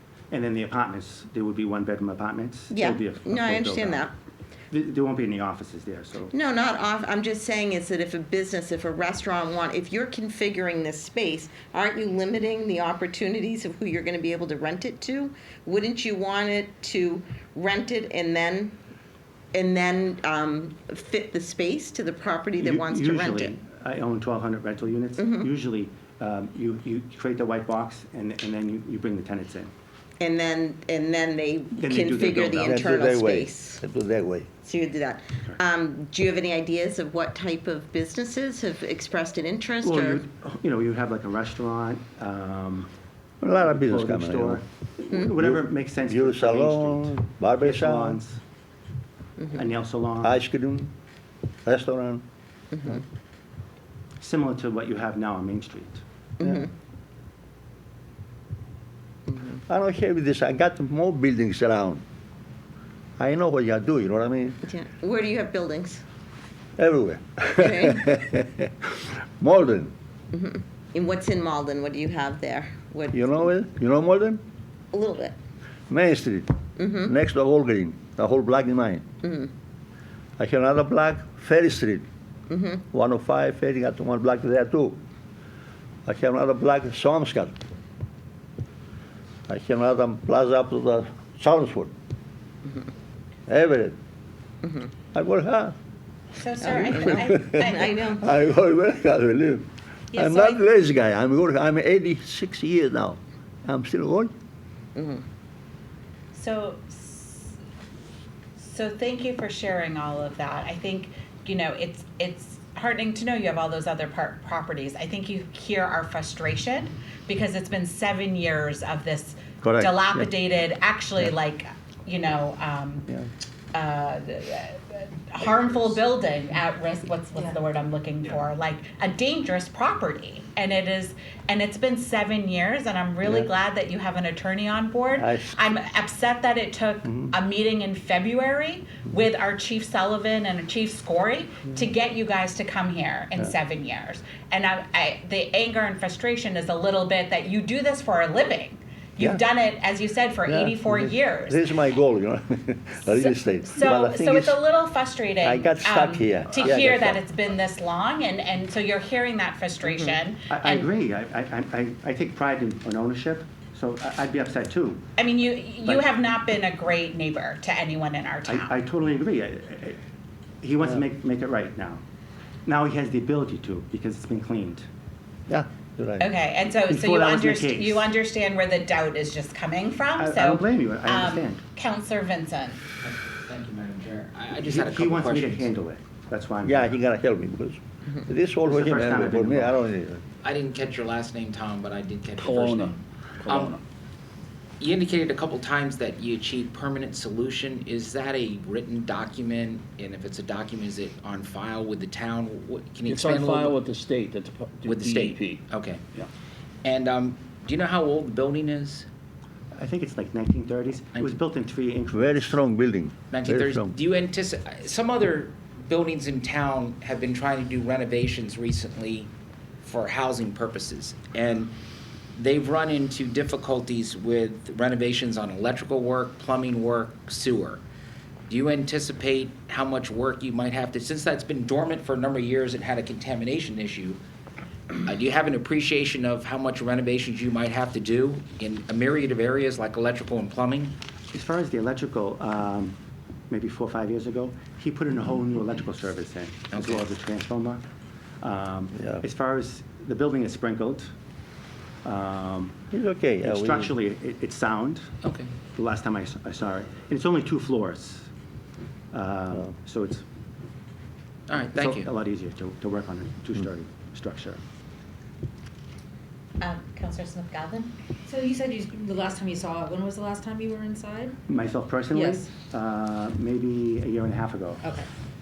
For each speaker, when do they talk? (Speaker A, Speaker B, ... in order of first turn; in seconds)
Speaker A: 0.3-4.1, 4.7-6.3, 22.6-29.7, 31.8-32.8, 39.8-42.9, 43.6-48.4, 49.5-50.4, 54.2-56.0, 159.8-165.1, 168.4-170.0, 170.6-172.0, 172.7-174.8, 176.9-178.1, 180.2-181.7, 184.6-187.0, 188.6-189.8, 209.7-212.5, 241.3-243.0, 243.5-247.8, 248.4-251.1, 252.0-252.8, 253.4-255.1, 255.7-258.3, 259.1-260.2, 261.6-264.6, 271.5-274.8
Speaker B: 2.7-4.1, 6.3-18.8, 19.5-23.6, 25.2-25.5, 30.2-33.8, 34.6-40.2, 52.7-53.0, 56.4-56.7, 59.3-59.5, 64.6-66.0, 67.6-68.2, 70.3-73.5, 74.9-75.3, 76.8-77.1, 79.2-79.5, 82.5-82.8, 94.6-94.9, 96.6-98.2, 104.9-105.2
Speaker C: 32.6-34.5, 43.4-44.6, 45.4-48.2, 50.2-50.9, 51.6-52.2, 59.7-62.0, 63.2-64.6, 66.8-69.9, 73.1-74.4, 75.9-76.5, 77.0-79.0, 80.4-82.0, 82.9-85.0, 86.0-87.5, 89.5-91.9, 93.5-94.0, 95.1-95.7, 96.9-104.3, 119.6-120.3, 135.2-135.6, 150.5-154.6, 155.4-157.2, 175.5-176.2, 186.6-190.2, 212.1-213.9, 249.0-249.2, 252.9-253.9
Speaker D: 96.3-98.2, 100.1-100.6, 106.3-107.5, 108.6-123.1, 123.7-151.7, 153.1-160.9, 165.2-168.8, 176.2-182.8, 266.6-267.9
Speaker E: 183.0-185.7, 190.4-193.8, 194.8-203.8, 204.8-206.0, 206.8-209.1, 213.3-219.3, 219.8-221.7, 222.3-227.8, 228.5-234.2, 235.0-240.9, 246.7-247.0, 255.2-255.5, 261.5-262.1
Speaker F: 192.4-192.8, 203.1-205.5
Speaker G: 268.2-271.4, 272.1-272.5, 274.8-275.1